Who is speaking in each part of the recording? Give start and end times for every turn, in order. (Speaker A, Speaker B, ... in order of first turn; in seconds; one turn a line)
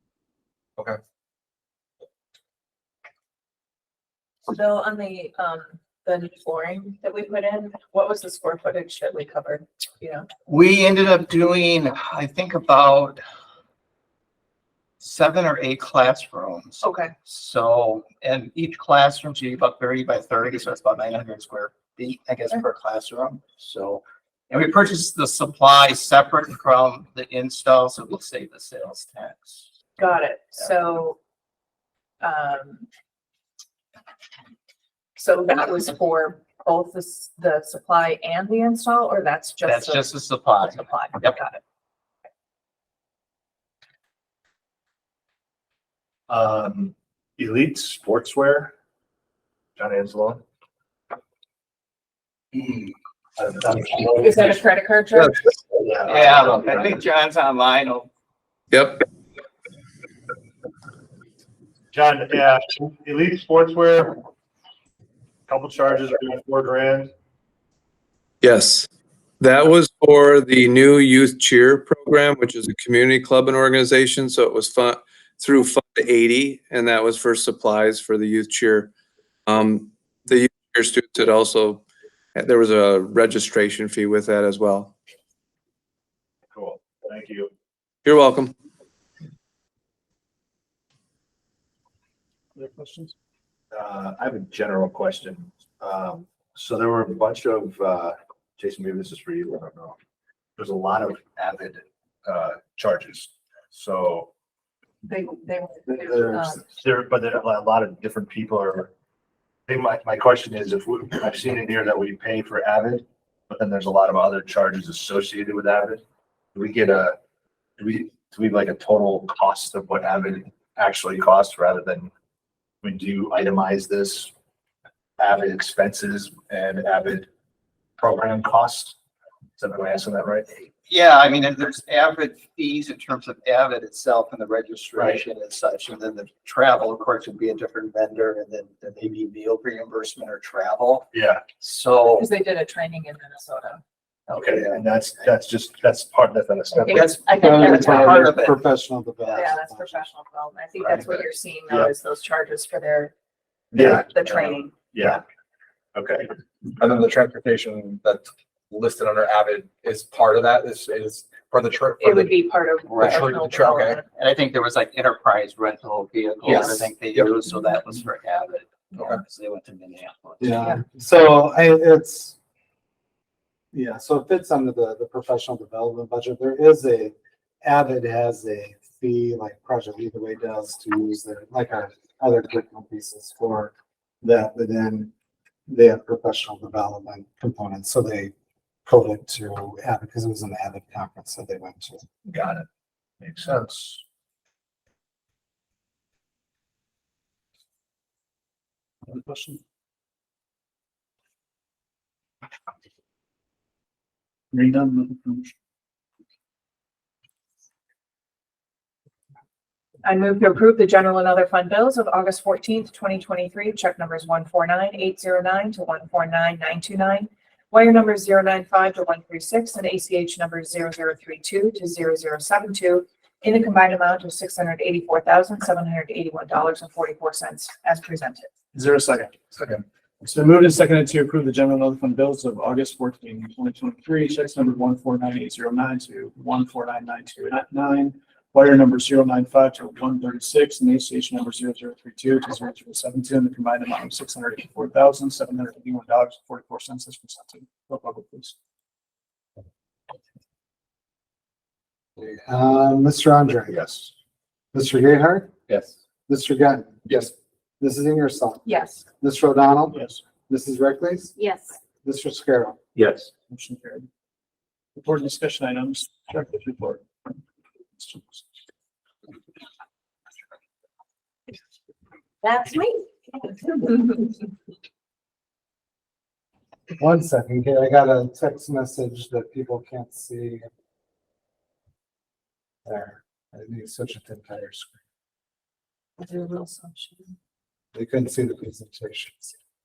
Speaker A: 4.5-10.3
Speaker B: 10.5-13.2
Speaker B: 15.0-29.6
Speaker A: 16.8-17.1
Speaker A: 30.0-31.2
Speaker A: 32.2-32.9
Speaker A: 35.1-41.6
Speaker B: 39.6-41.4
Speaker C: 46.3-48.7
Speaker C: 49.8-50.4
Speaker C: 53.4-54.6
Speaker A: 54.1-55.4
Speaker C: 55.8-56.9
Speaker B: 56.0-58.1
Speaker D: 58.7-59.0
Speaker C: 61.9-64.2
Speaker C: 65.5-67.1
Speaker D: 68.4-68.9
Speaker D: 69.4-78.9
Speaker D: 79.5-84.9
Speaker C: 86.5-87.5
Speaker D: 88.0-88.5
Speaker E: 92.5-93.1
Speaker C: 93.7-100.0
Speaker C: 100.6-104.3
Speaker A: 105.1-106.6
Speaker F: 105.9-106.6
Speaker C: 106.7-108.9
Speaker C: 109.7-116.0
Speaker C: 116.5-117.2
Speaker C: 117.8-122.1
Speaker C: 122.8-124.3
Speaker C: 125.2-127.3
Speaker C: 128.0-129.0
Speaker C: 129.6-130.5
Speaker B: 130.9-142.3
Speaker C: 134.9-135.2
Speaker C: 141.1-141.4
Speaker A: 142.2-143.8
Speaker C: 144.3-147.2
Speaker B: 144.3-145.0
Speaker A: 146.8-148.3
Speaker B: 146.9-148.6
Speaker F: 147.3-150.1
Speaker A: 149.3-153.1
Speaker B: 150.8-151.2
Speaker C: 153.7-155.2
Speaker A: 153.8-154.7
Speaker C: 155.9-156.3
Speaker G: 156.8-162.4
Speaker A: 162.0-164.0
Speaker B: 162.9-170.7
Speaker G: 163.0-164.0
Speaker G: 166.4-166.8
Speaker F: 170.4-172.3
Speaker F: 173.7-185.1
Speaker F: 185.7-188.3
Speaker F: 188.8-192.0
Speaker C: 192.3-192.7
Speaker C: 193.2-194.0
Speaker E: 199.1-199.6
Speaker E: 204.5-205.5
Speaker A: 210.0-228.5
Speaker E: 228.7-248.5
Speaker F: 252.2-253.8
Speaker C: 253.7-254.1
Speaker F: 254.7-255.5
Speaker F: 256.3-261.4
Speaker A: 258.6-259.0
Speaker E: 259.9-260.2
Speaker F: 262.0-262.8
Speaker E: 263.5-264.1
Speaker E: 264.9-267.0
Speaker E: 268.0-268.4
Speaker F: 277.0-280.6
Speaker F: 282.8-284.9
Speaker A: 286.2-287.2
Speaker F: 287.9-289.5